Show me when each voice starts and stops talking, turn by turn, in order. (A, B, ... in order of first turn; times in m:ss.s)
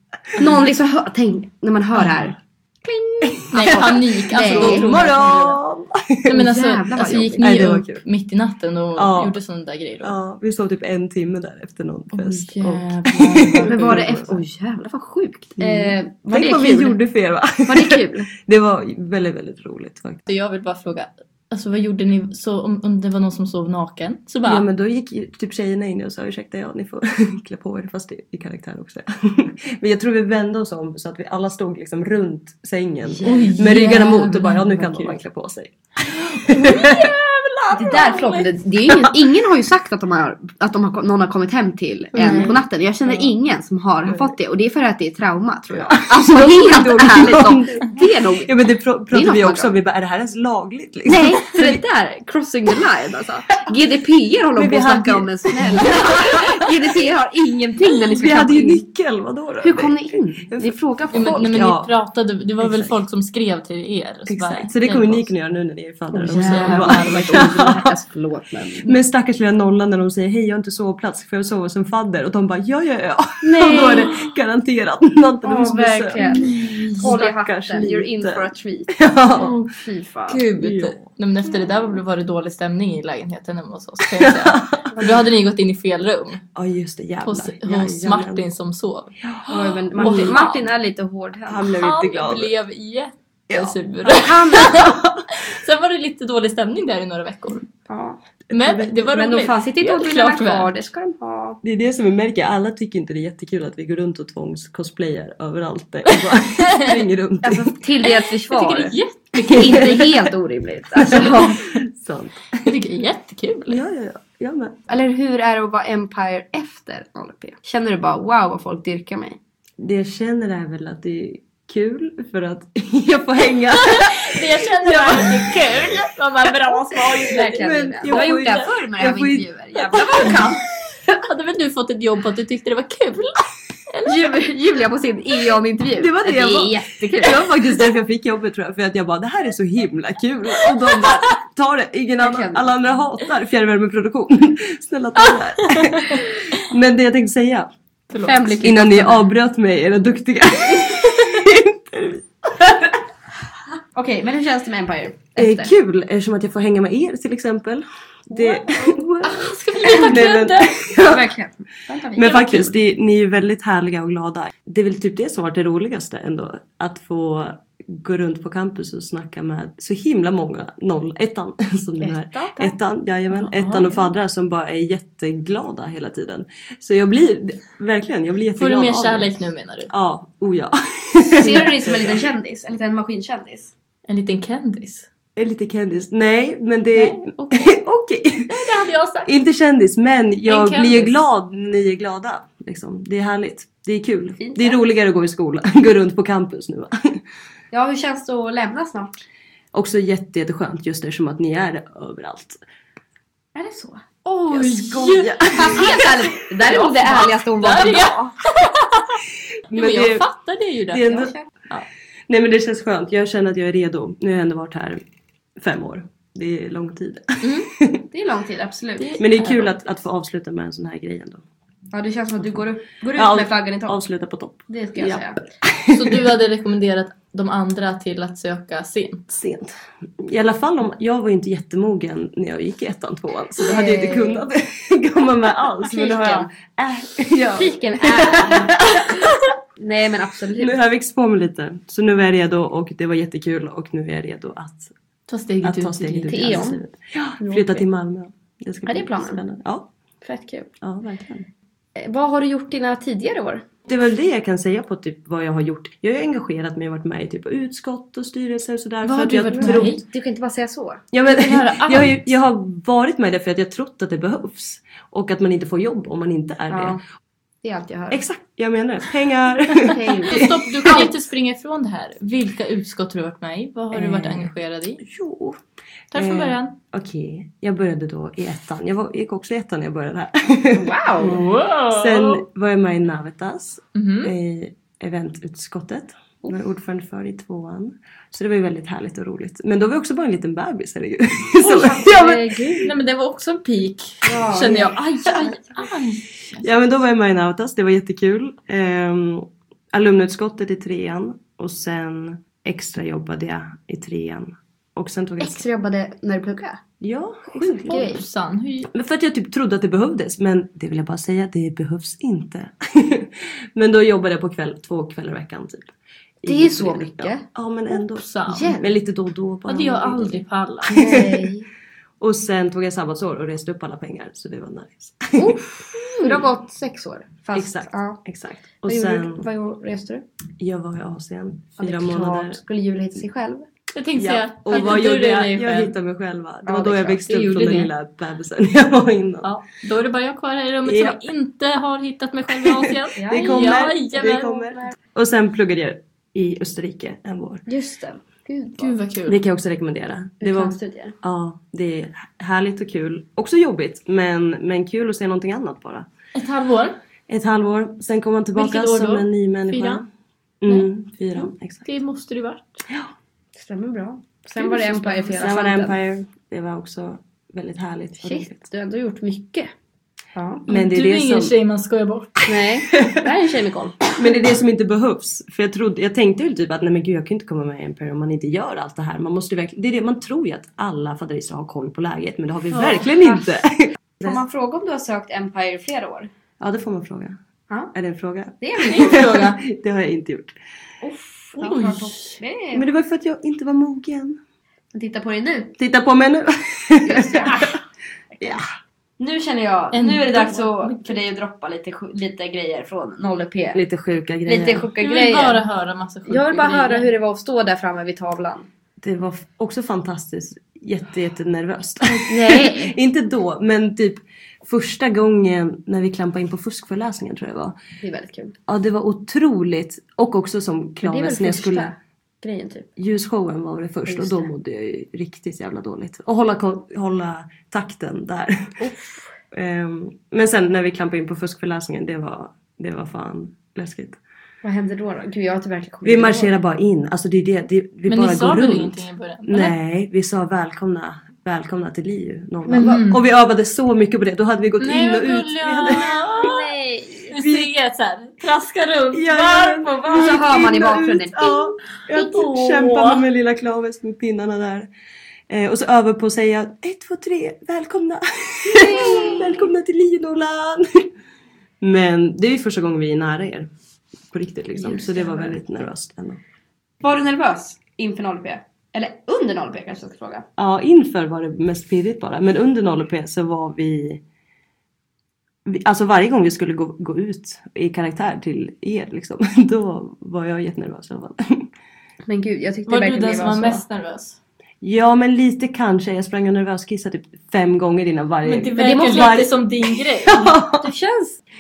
0:00.4-0:04.9 A
0:03.2-0:06.4 B
0:03.5-0:05.6 C
0:06.3-0:10.2 C
0:06.3-0:07.5 A
0:07.4-0:08.0 B
0:09.0-0:09.4 B
0:10.0-0:14.4 B
0:12.1-0:14.2 C
0:13.6-0:17.0 A
0:15.6-0:20.2 B
0:17.6-0:18.3 A
0:20.3-0:24.6 C
0:24.4-0:37.1 B
0:33.1-0:33.6 A
0:33.2-0:35.2 C
0:36.1-0:38.6 C
0:37.7-0:48.5 A
0:42.2-0:42.6 C
0:42.2-0:42.6 B
0:45.7-0:51.8 B
0:49.1-0:49.7 A
0:51.1-0:58.8 A
0:54.6-0:56.7 B
0:58.1-1:01.9 B
0:59.6-1:01.5 A
1:01.1-1:05.3 C
1:02.6-1:02.9 B
1:04.3-1:08.0 B
1:06.1-1:08.9 A
1:06.3-1:07.5 C
1:08.8-1:19.6 B
1:13.4-1:14.1 A
1:13.6-1:14.3 C
1:15.4-1:19.0 A
1:16.2-1:17.1 C
1:19.4-1:19.7 C
1:19.8-1:20.4 A
1:20.3-1:26.4 C
1:20.6-1:21.0 B
1:21.4-1:22.0 A
1:24.0-1:24.9 B
1:26.6-1:28.4 B
1:27.2-1:30.6 C
1:29.2-1:30.5 B
1:29.5-1:31.7 A
1:31.5-1:32.5 B
1:31.7-1:37.7 C
1:33.5-1:33.8 B
1:34.0-1:34.9 A
1:34.6-1:35.2 B
1:37.9-1:38.2 A
1:38.5-1:39.0 B
1:38.5-1:40.8 C
1:39.1-1:41.6 A
1:41.6-1:47.7 B
1:46.1-1:47.0 C
1:47.4-1:51.7 A
1:48.0-1:50.1 C
1:49.4-1:50.1 B
1:51.0-1:52.7 B
1:52.6-1:53.8 C
1:53.7-1:54.8 B
1:54.9-1:59.4 A
1:59.8-2:06.0 B
2:03.7-2:08.7 C
2:07.2-2:11.2 A
2:07.4-2:10.5 B
2:10.1-2:10.5 C
2:11.2-2:14.4 C
2:14.0-2:17.6 A
2:16.0-2:27.7 B
2:20.6-2:21.2 C
2:22.2-2:22.7 A
2:25.2-2:26.7 C
2:28.1-2:28.6 C
2:28.2-2:29.2 A
2:28.6-2:32.9 B
2:30.9-2:31.4 C
2:34.0-2:35.7 A
2:35.4-2:41.3 B
2:39.2-2:40.9 C
2:41.0-2:42.8 A
2:42.2-2:59.4 B
2:52.0-2:52.8 A
2:53.3-2:54.1 C
2:58.6-2:59.9 C
2:59.9-3:02.2 B
3:01.3-3:03.7 A
3:04.1-3:05.1 C
3:05.4-3:08.5 B
3:07.0-3:07.8 C
3:08.5-3:09.3 C
3:09.2-3:17.2 B
3:10.5-3:11.2 C
3:14.4-3:14.8 A
3:17.7-3:19.1 A
3:19.7-3:22.6 B
3:23.6-3:24.0 A
3:24.2-3:31.8 C
3:24.5-3:26.1 B
3:25.5-3:28.4 A
3:29.7-3:30.2 B
3:30.9-3:31.3 B
3:31.1-3:31.4 A
3:32.3-3:35.0 B
3:35.6-3:38.0 B
3:37.4-3:37.7 C
3:38.1-3:39.2 A
3:39.0-3:39.7 C
3:39.2-3:41.4 B
3:41.9-3:44.0 A
3:43.2-3:46.2 B
3:44.7-3:45.4 A
3:45.9-3:49.4 C
3:49.4-3:59.3 B
3:53.6-3:54.4 A
3:55.8-3:56.5 A
3:57.5-3:59.1 A
3:59.8-4:00.8 A
4:00.6-4:04.9 B
4:05.3-4:06.7 C
4:05.6-4:09.9 B
4:06.3-4:06.8 A
4:07.4-4:07.8 A
4:08.9-4:09.4 A
4:10.2-4:10.7 A
4:10.8-4:11.5 B
4:12.0-4:13.6 A
4:13.9-4:20.0 B
4:19.0-4:20.0 C
4:19.6-4:21.0 A
4:21.1-4:27.0 B
4:21.3-4:22.3 C
4:26.7-4:27.0 A
4:27.6-4:28.2 A
4:28.1-4:31.1 B
4:29.8-4:31.1 A
4:30.3-4:35.0 C
4:33.9-4:35.6 B
4:36.1-4:36.8 C
4:36.1-4:52.8 B
4:40.7-4:41.4 A
4:41.2-4:42.4 C
4:44.0-4:44.3 C
4:51.6-4:52.9 A
4:52.8-4:56.7 C
4:54.2-4:55.0 A
4:56.6-5:05.6 B
5:05.4-5:06.8 A
5:07.0-5:08.2 B
5:07.5-5:08.2 A
5:07.9-5:08.9 C
5:08.9-5:21.5 B
5:16.4-5:17.4 A
5:18.1-5:18.8 C
5:18.5-5:18.8 A
5:19.7-5:21.2 C
5:20.9-5:21.7 A
5:22.2-5:25.6 B
5:25.4-5:28.2 A
5:26.2-5:26.5 B
5:27.6-5:29.5 B
5:28.9-5:30.2 A
5:30.6-5:32.6 B
5:31.8-5:33.7 A
5:33.9-5:35.9 C
5:34.2-5:39.5 B
5:36.6-5:37.8 A
5:37.3-5:37.9 C
5:39.4-5:44.7 C
5:40.9-5:41.2 B
5:42.5-5:47.6 B
5:43.2-5:43.7 A
5:47.7-5:49.0 A
5:48.8-5:49.4 C
5:49.3-5:56.1 B
5:50.4-5:51.2 A
5:56.4-5:57.0 C
5:57.3-6:00.0 B
5:58.6-6:00.0 C
6:00.6-6:01.8 B
6:00.7-6:02.8 C
6:03.6-6:06.0 A
6:04.6-6:05.4 C
6:05.4-6:08.6 B
6:08.2-6:09.7 A
6:10.4-6:10.6 A
6:10.7-6:11.5 B
6:10.7-6:12.5 C
6:12.5-6:14.2 A
6:14.2-6:24.4 B
6:22.7-6:23.1 C
6:23.0-6:23.5 A
6:24.2-6:26.3 A
6:26.6-6:27.4 B
6:27.9-6:30.6 B
6:28.6-6:29.3 A
6:28.8-6:29.6 C
6:31.0-6:32.8 A
6:31.6-6:32.4 C
6:32.7-6:34.4 B
6:34.9-6:35.8 A
6:35.8-6:37.8 B
6:37.0-6:37.8 A
6:38.4-6:38.6 A
6:39.2-6:43.8 A
6:39.9-6:41.2 C
6:43.7-6:44.9 B
6:44.5-6:45.6 A
6:45.0-6:47.1 C
6:46.3-6:48.7 A
6:49.0-6:57.8 B
6:52.1-6:53.0 A
6:58.0-6:58.6 A
6:58.7-7:01.9 B
7:01.0-7:02.9 A
7:03.0-7:08.7 B
7:04.1-7:04.5 A
7:08.8-7:09.3 A
7:09.5-7:14.2 B
7:14.6-7:16.5 A
7:16.0-7:26.1 B
7:18.1-7:19.8 C
7:22.7-7:23.2 C
7:24.8-7:26.7 C
7:25.9-7:27.3 A
7:27.3-7:30.5 C
7:27.4-7:27.7 B
7:29.1-7:34.9 B
7:30.1-7:31.7 A
7:32.1-7:33.2 C
7:35.5-7:41.1 B
7:38.7-7:39.6 A
7:41.8-7:43.7 B
7:44.3-7:46.4 B
7:44.8-7:45.6 A
7:47.0-7:50.5 A
7:50.6-7:54.2 B
7:55.6-8:01.7 B
8:02.3-8:03.8 A
8:02.9-8:04.4 C
8:04.8-8:10.8 B
8:08.4-8:10.5 C
8:08.8-8:09.4 A
8:10.8-8:11.4 A